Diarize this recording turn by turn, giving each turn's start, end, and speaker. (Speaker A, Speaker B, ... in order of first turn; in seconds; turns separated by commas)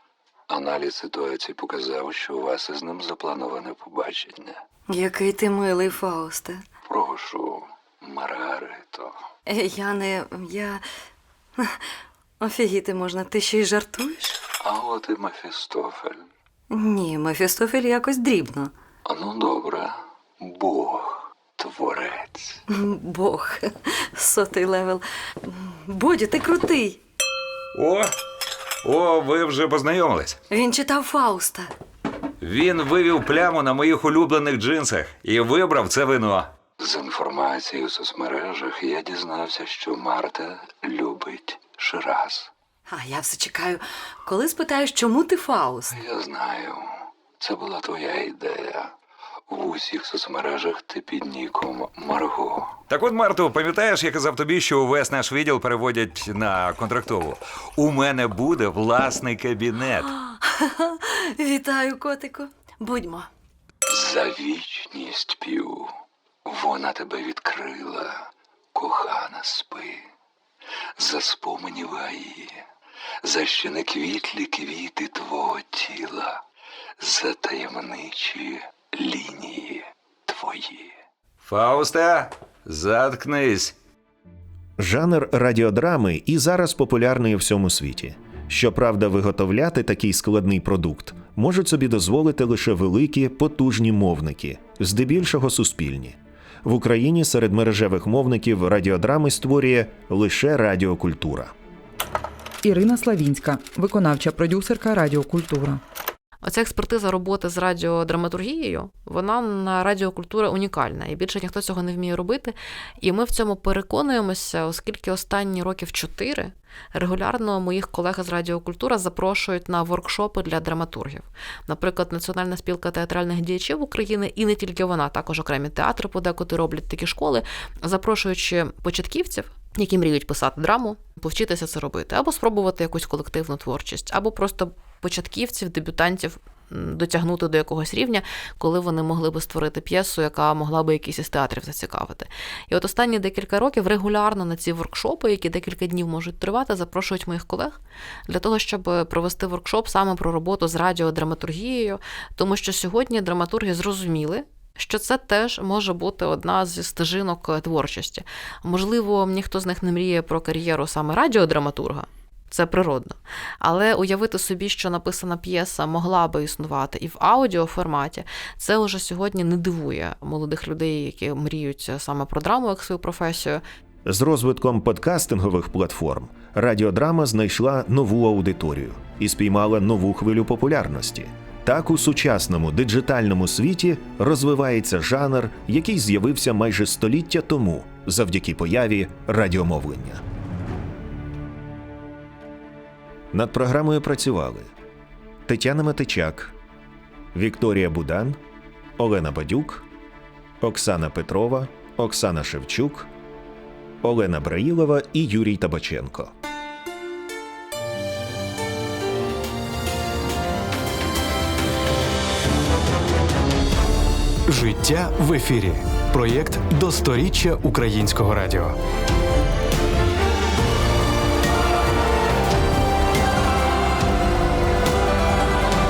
Speaker A: 0.5-4.6, Speaker B: 4.9-6.6, Speaker A: 6.8-9.1, Speaker B: 9.5-10.8, Speaker B: 11.6-11.8, Speaker B: 12.4-14.4, Speaker A: 14.6-16.2, Speaker B: 16.7-18.7, Speaker A: 19.0-22.6, Speaker B: 22.7-27.0, Speaker C: 27.7-28.1, Speaker C: 28.8-30.4, Speaker B: 30.5-31.7, Speaker C: 32.4-36.5, Speaker A: 36.8-42.5, Speaker B: 42.9-46.0, Speaker A: 45.9-46.9, Speaker A: 47.4-48.9, Speaker A: 49.5-52.8, Speaker C: 52.9-60.1, Speaker B: 60.0-63.3, Speaker A: 63.9-65.9, Speaker A: 66.4-70.0, Speaker A: 71.0-72.6, Speaker A: 73.2-76.4, Speaker A: 77.0-81.0, Speaker C: 81.4-83.7, Speaker D: 84.8-101.5, Speaker E: 102.6-105.8, Speaker F: 106.4-173.6, Speaker D: 174.0-190.2, Speaker D: 193.3-194.7, Speaker D: 195.5-196.5, Speaker D: 197.3-198.4, Speaker D: 199.0-199.8, Speaker D: 200.6-203.1, Speaker D: 204.0-206.3, Speaker G: 214.4-218.8